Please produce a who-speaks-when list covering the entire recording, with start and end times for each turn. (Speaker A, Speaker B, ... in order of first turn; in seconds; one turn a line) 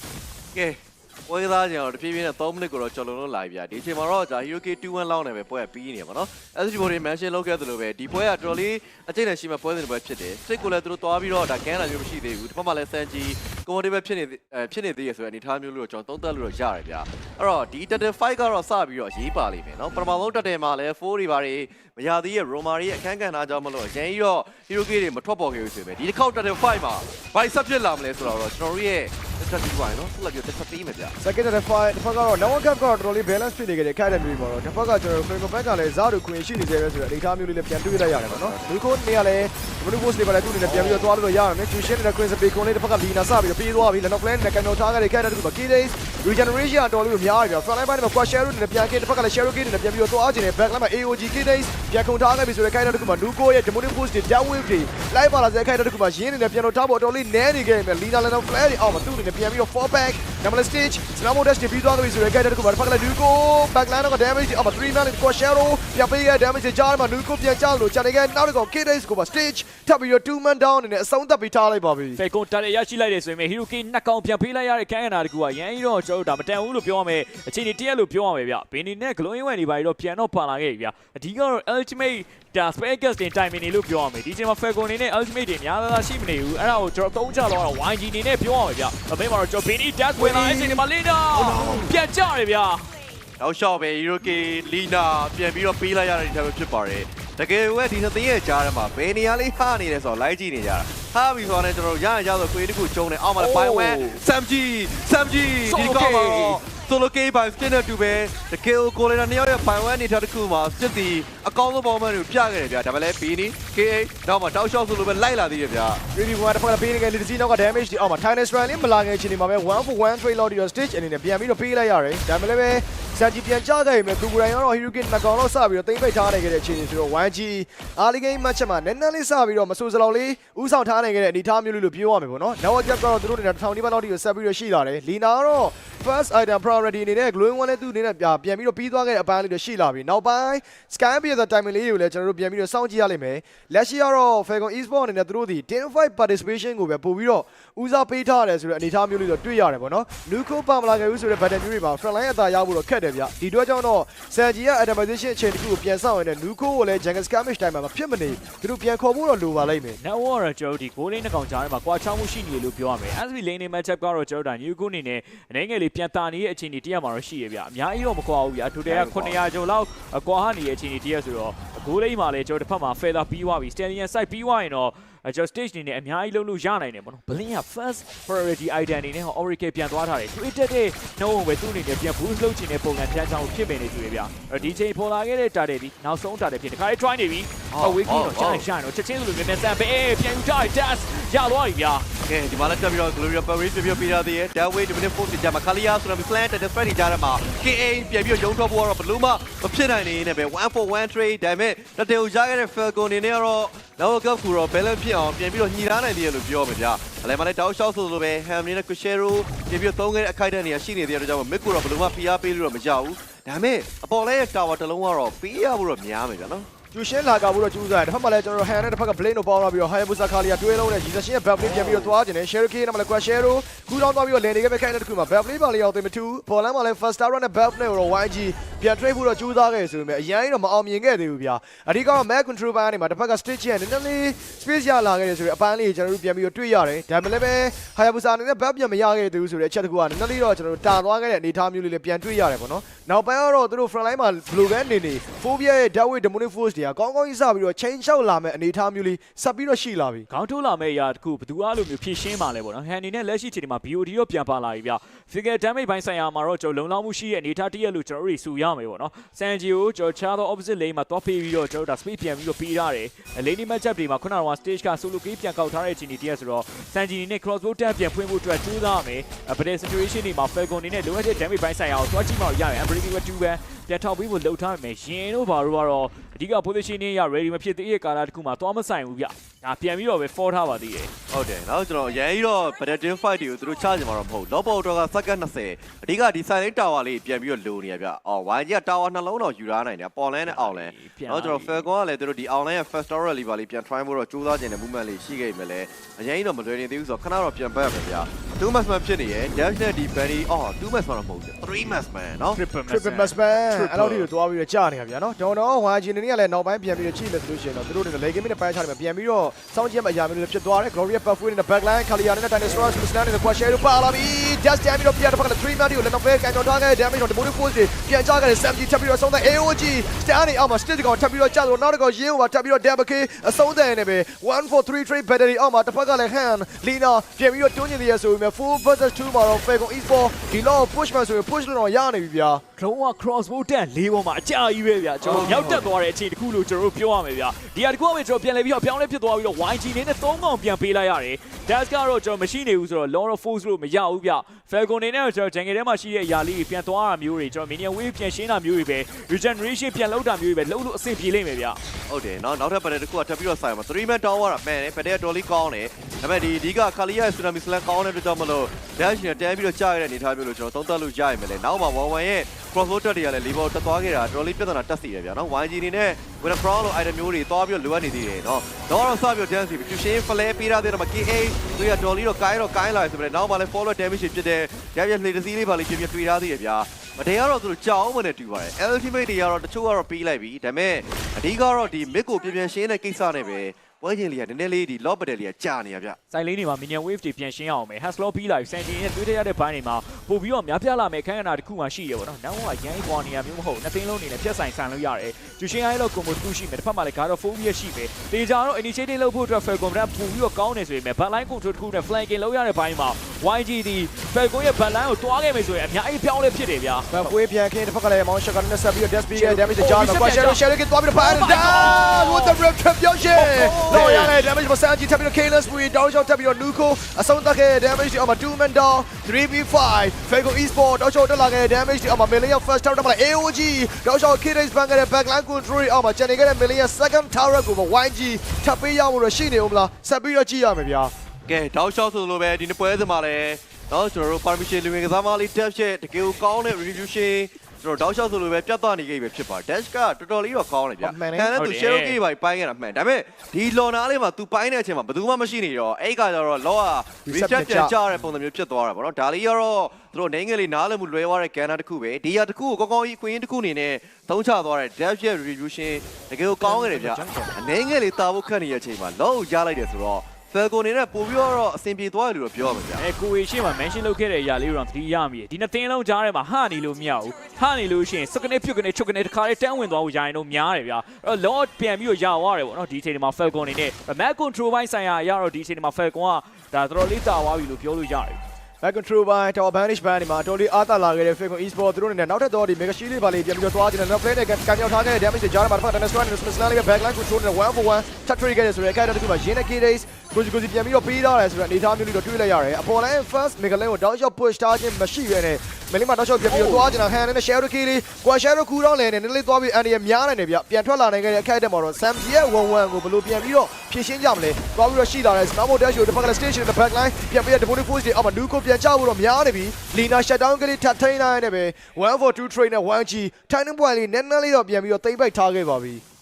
Speaker A: 0.6-31.1
Speaker B: 31.2-72.2
Speaker A: 38.1-38.7
Speaker A: 40.6-41.1
Speaker C: 72.2-92.9
Speaker B: 90.2-90.8
Speaker B: 91.3-91.9
Speaker A: 93.4-116.0
Speaker C: 103.4-104.2
Speaker C: 105.7-106.6
Speaker B: 116.1-160.0
Speaker C: 160.0-192.1
Speaker A: 168.9-169.4
Speaker A: 187.7-188.7
Speaker A: 192.2-216.7
Speaker B: 216.9-250.3
Speaker A: 221.7-222.1
Speaker C: 250.3-281.1
Speaker A: 281.3-302.6
Speaker C: 290.4-291.9
Speaker C: 301.7-302.0
Speaker C: 302.5-304.3
Speaker B: 302.9-332.6
Speaker C: 332.8-351.8
Speaker A: 335.2-335.9
Speaker A: 352.1-386.2
Speaker C: 386.3-407.4
Speaker B: 407.1-431.1
Speaker C: 409.3-410.6
Speaker C: 411.1-412.7
Speaker C: 413.3-414.3
Speaker A: 413.6-414.4
Speaker A: 431.5-463.0
Speaker B: 441.0-441.5
Speaker C: 441.5-442.2
Speaker B: 447.3-447.9
Speaker C: 456.6-457.6
Speaker C: 462.9-478.4
Speaker B: 478.8-516.0
Speaker C: 496.5-497.0